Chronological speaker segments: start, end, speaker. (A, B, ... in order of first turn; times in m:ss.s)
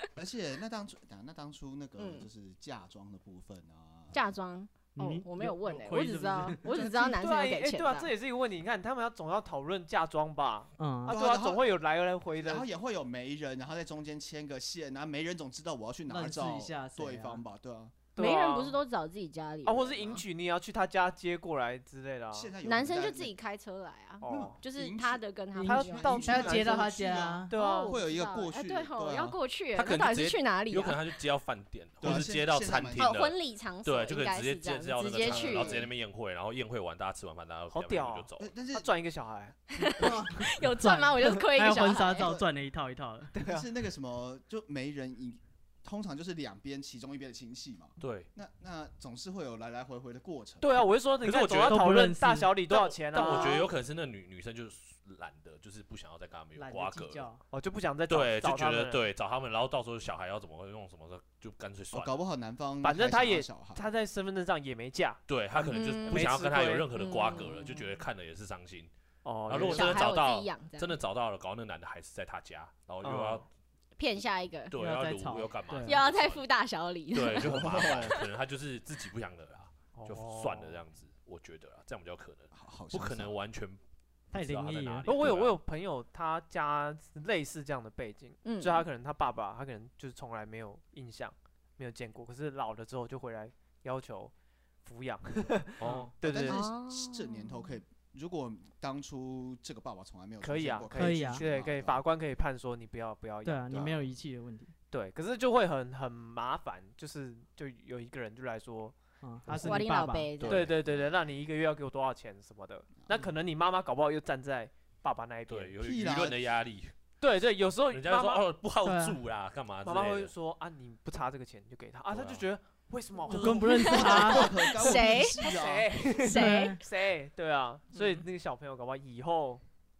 0:00.2-0:04.1 A
0:02.0-0:02.3 B
0:04.1-0:08.1 B
0:04.9-0:06.8 C
0:06.8-0:12.7 D
0:10.8-0:11.1 C
0:11.1-0:11.7 A
0:12.4-0:18.0 A
0:16.1-0:17.4 C
0:18.1-0:18.8 D
0:18.2-0:20.2 B
0:19.6-0:22.5 D
0:22.3-0:23.3 A
0:22.6-0:26.6 B
0:24.2-0:24.6 D
0:24.2-0:29.4 A
0:25.6-0:26.9 D
0:26.2-0:27.5 C
0:27.5-0:28.0 D
0:27.5-0:31.0 B
0:29.7-0:38.5 E
0:32.0-0:33.1 A
0:32.9-0:35.8 B
0:35.2-0:35.9 A
0:37.7-0:39.6 D
0:38.4-0:38.9 A
0:39.7-0:42.4 B
0:39.8-0:43.3 C
0:43.3-0:43.7 D
0:43.4-0:50.8 A
0:48.0-0:48.3 E
0:50.6-0:53.7 D
0:51.2-0:51.8 E
0:51.7-0:52.6 C
0:52.6-0:57.3 E
0:53.2-0:53.7 B
0:56.6-0:57.4 C
0:57.5-0:59.0 D
0:58.1-1:02.2 E
1:01.9-1:03.8 A
1:02.8-1:05.2 D
1:05.3-1:08.9 E
1:05.6-1:06.4 B
1:06.1-1:06.9 D
1:06.9-1:07.8 B
1:09.2-1:10.1 D
1:09.4-1:13.5 E
1:09.6-1:11.0 B
1:13.0-1:13.4 D
1:14.0-1:14.7 B
1:14.7-1:16.4 E
1:14.8-1:16.0 C
1:15.8-1:18.1 B
1:17.1-1:23.8 E
1:17.5-1:18.2 A
1:19.9-1:20.8 D
1:22.5-1:23.3 A
1:24.3-1:25.6 E
1:24.3-1:25.1 C
1:25.0-1:34.3 D
1:28.4-1:28.8 B
1:34.8-1:36.6 D
1:35.8-1:36.1 E
1:35.8-1:36.1 C
1:36.2-1:42.0 A
1:36.4-1:37.7 B
1:40.4-1:43.9 D
1:40.9-1:41.4 C
1:43.4-1:44.7 C
1:43.7-1:44.0 A
1:44.9-1:49.0 D
1:49.2-1:50.4 C
1:49.5-1:50.7 B
1:50.4-1:50.7 E
1:50.4-1:55.7 D
1:55.5-1:56.9 E
1:55.8-1:56.4 A
1:57.2-1:58.4 D
1:57.9-2:00.3 E
1:58.8-1:59.2 C
1:59.8-2:04.2 D
2:02.1-2:02.4 E
2:03.3-2:04.5 C
2:03.3-2:06.2 A
2:03.7-2:05.5 B
2:04.8-2:09.6 D
2:06.2-2:06.8 C
2:06.2-2:06.8 B
2:07.9-2:08.2 B